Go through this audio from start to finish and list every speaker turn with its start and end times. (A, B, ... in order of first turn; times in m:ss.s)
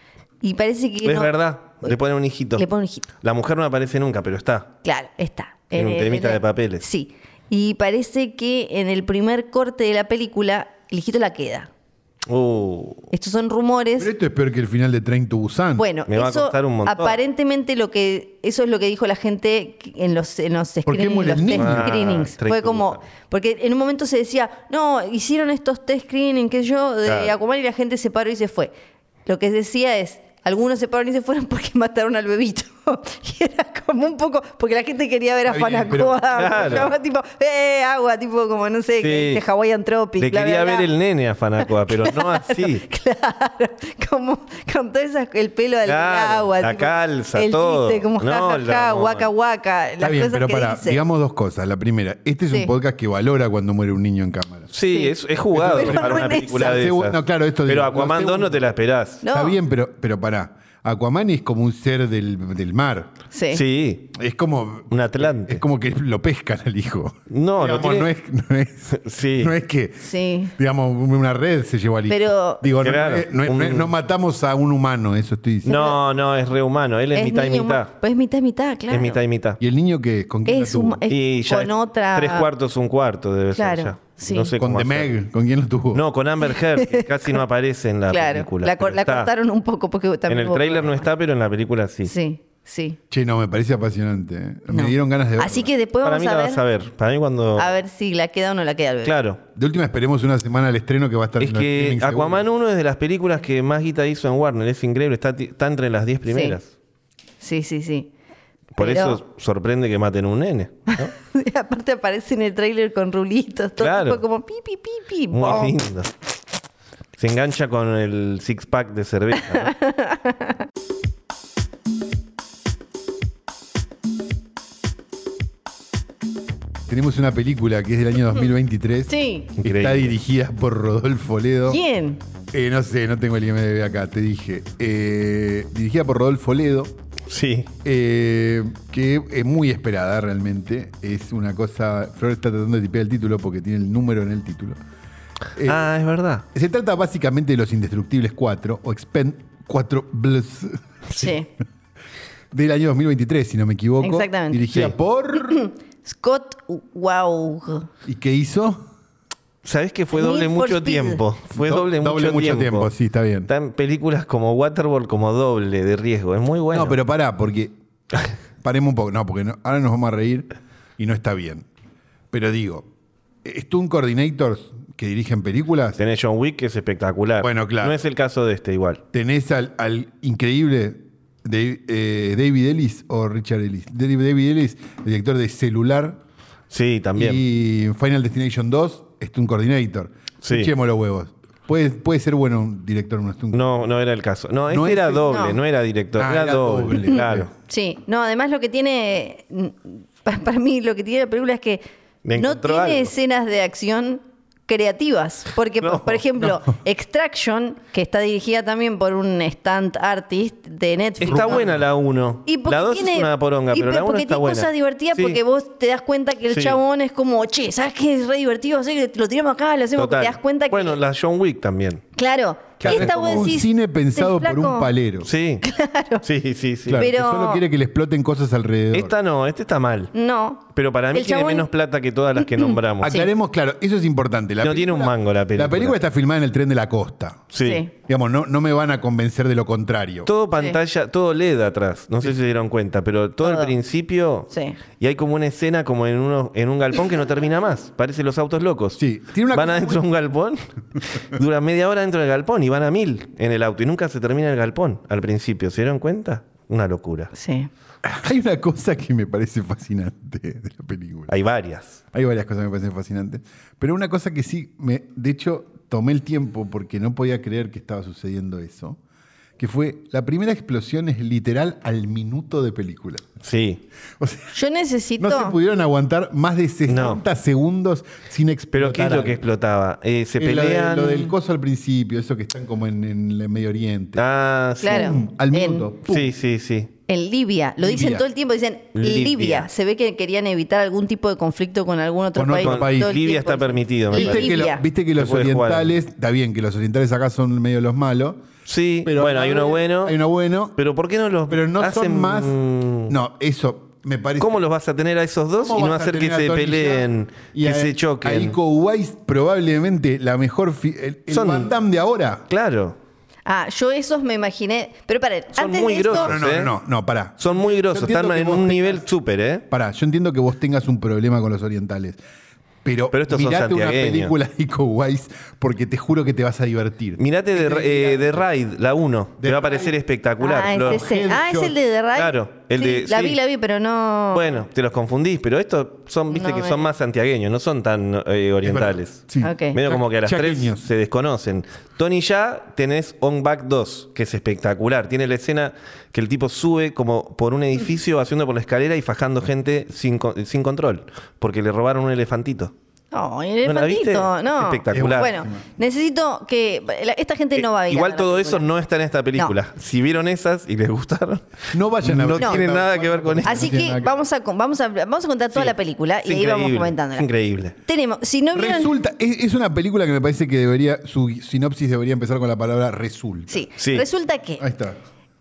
0:00.4-0:01.3 A
0:01.0-0:02.6 B
0:02.6-0:03.1 A
0:03.2-0:04.7 B
0:04.8-0:11.7 A
0:05.7-0:06.8 B
0:12.3-0:13.1 B
0:13.1-0:14.1 A
0:14.0-0:15.8 C
0:15.8-0:28.7 A
0:16.1-0:17.2 B
0:20.8-0:21.9 C
0:21.5-0:23.0 B
0:27.0-0:27.3 B
0:29.2-0:40.9 A
0:35.5-0:36.8 C
0:36.3-0:36.9 B
0:39.0-0:39.4 B
0:40.2-0:42.8 B
0:41.8-0:51.0 A
0:45.8-0:49.3 B
0:50.0-0:54.7 C
0:54.7-0:59.2 B
0:54.9-0:56.8 A
0:55.5-0:58.6 C
0:59.2-0:59.6 A
0:59.3-1:03.1 C
1:03.3-1:03.6 A
1:03.5-1:04.1 B
1:04.1-1:15.8 C
1:04.9-1:05.6 B
1:07.3-1:08.1 B
1:08.9-1:09.5 B
1:10.0-1:10.5 A
1:12.1-1:12.6 A
1:12.8-1:13.9 B
1:15.6-1:16.0 A
1:15.6-1:17.9 B
1:17.1-1:19.2 A
1:18.9-1:19.6 B
1:19.6-1:21.0 C
1:20.4-1:22.5 A
1:21.1-1:25.1 B
1:23.5-1:24.5 A
1:24.6-1:26.0 C
1:25.9-1:29.3 B
1:26.7-1:27.4 A
1:28.1-1:31.0 A
1:30.3-1:32.1 B
1:32.0-1:33.0 A
1:33.1-1:35.7 C
1:34.7-1:36.6 A
1:36.0-1:37.7 B
1:37.6-1:39.1 A
1:39.0-1:39.4 B
1:39.5-1:42.4 C
1:41.4-1:46.7 B
1:46.3-1:46.6 A
1:47.4-1:48.1 A
1:48.7-1:51.1 B
1:48.8-1:49.2 A
1:50.9-1:55.7 A
1:53.8-1:54.2 B
1:55.3-1:56.1 B
1:57.2-1:59.7 B
1:59.6-2:00.5 A
2:06.9-2:11.8 C
2:09.1-2:09.5 A
2:09.6-2:10.1 B
2:11.7-2:12.2 A
2:12.5-2:16.9 C
2:17.3-2:17.7 B
2:17.8-2:24.8 C
2:25.6-2:25.9 C
2:25.6-2:26.4 B
2:26.5-2:31.4 C
2:31.1-2:31.5 A
2:32.5-2:35.6 C
2:34.0-2:34.7 A
2:35.4-2:37.9 A
2:38.0-2:38.8 C
2:39.6-2:42.9 B
2:40.1-2:41.2 A
2:41.5-2:43.5 C
2:43.5-2:47.0 B
2:46.7-2:47.7 C
2:48.6-2:51.7 C
2:52.3-2:52.9 C
2:53.4-2:56.0 C
2:56.0-2:59.0 B
2:57.4-2:58.0 C
2:59.1-3:06.2 C
3:06.7-3:07.4 B
3:07.2-3:13.8 C
3:10.4-3:10.7 B
3:13.5-3:17.5 B
3:14.7-3:15.3 C
3:15.2-3:15.6 A
3:16.2-3:17.5 C
3:17.1-3:21.8 A
3:22.2-3:23.1 B
3:22.3-3:31.7 A
3:25.8-3:26.2 B
3:31.2-3:35.4 B
3:31.3-3:31.6 C
3:32.4-3:41.0 A
3:36.5-3:36.8 B
3:40.0-3:42.0 B
3:42.2-3:44.9 A
3:42.8-3:43.5 B
3:42.8-3:45.3 C
3:45.2-3:45.6 B
3:45.6-3:46.2 A
3:46.2-3:47.1 B
3:46.8-3:49.1 C
3:46.9-3:47.6 A
3:48.9-3:50.1 B
3:50.1-3:51.7 A
3:50.7-3:53.2 B
3:52.4-3:53.3 A
3:53.0-3:57.5 C
3:54.6-3:56.0 B
3:57.5-3:57.8 B
3:57.6-3:57.9 A
3:58.0-4:00.3 C
4:00.2-4:17.3 B
4:03.4-4:03.7 A
4:04.5-4:04.8 A
4:09.0-4:10.0 C
4:17.3-4:17.7 A
4:18.0-4:21.3 C
4:21.3-4:22.0 B
4:22.1-4:29.0 C
4:29.6-4:33.2 C
4:33.4-4:33.8 B
4:34.2-4:34.5 C
4:34.5-4:35.6 A
4:35.2-4:39.4 C
4:36.9-4:37.2 B
4:38.7-4:41.3 B
4:40.4-4:44.2 C
4:44.2-4:45.2 B
4:44.8-4:45.9 A
4:44.8-4:46.3 C
4:46.1-4:46.9 B
4:47.1-4:54.8 A
4:47.8-4:48.2 C
4:48.9-4:49.7 B
4:52.3-4:53.2 C
4:52.6-4:54.6 B
4:54.1-4:58.4 C
4:55.2-4:55.9 B
4:58.6-5:00.2 B
4:59.0-5:00.8 C
5:00.8-5:03.1 B
5:01.5-5:04.6 C
5:04.4-5:08.6 B
5:05.6-5:12.4 C
5:11.3-5:11.7 B
5:12.5-5:13.0 B
5:13.4-5:16.3 A
5:15.6-5:16.7 B
5:16.1-5:19.0 C
5:17.4-5:19.6 B
5:19.7-5:22.2 C
5:22.8-5:28.4 C
5:23.1-5:24.3 B
5:27.2-5:31.0 B
5:29.4-5:30.0 C
5:30.4-5:34.6 A
5:30.7-5:31.7 C
5:32.1-5:33.4 B
5:34.3-5:52.7 B
5:36.3-5:36.9 A
5:38.6-5:40.9 C
5:39.4-5:39.8 A
5:53.1-5:58.6 A
5:53.6-5:55.3 B
5:54.9-5:55.6 C
5:57.5-6:03.9 B
6:01.7-6:04.1 C
6:03.4-6:07.2 A
6:05.5-6:07.8 B
6:07.8-6:08.9 A
6:08.5-6:13.6 C
6:13.5-6:14.6 A
6:13.8-6:14.0 B
6:14.6-6:15.0 C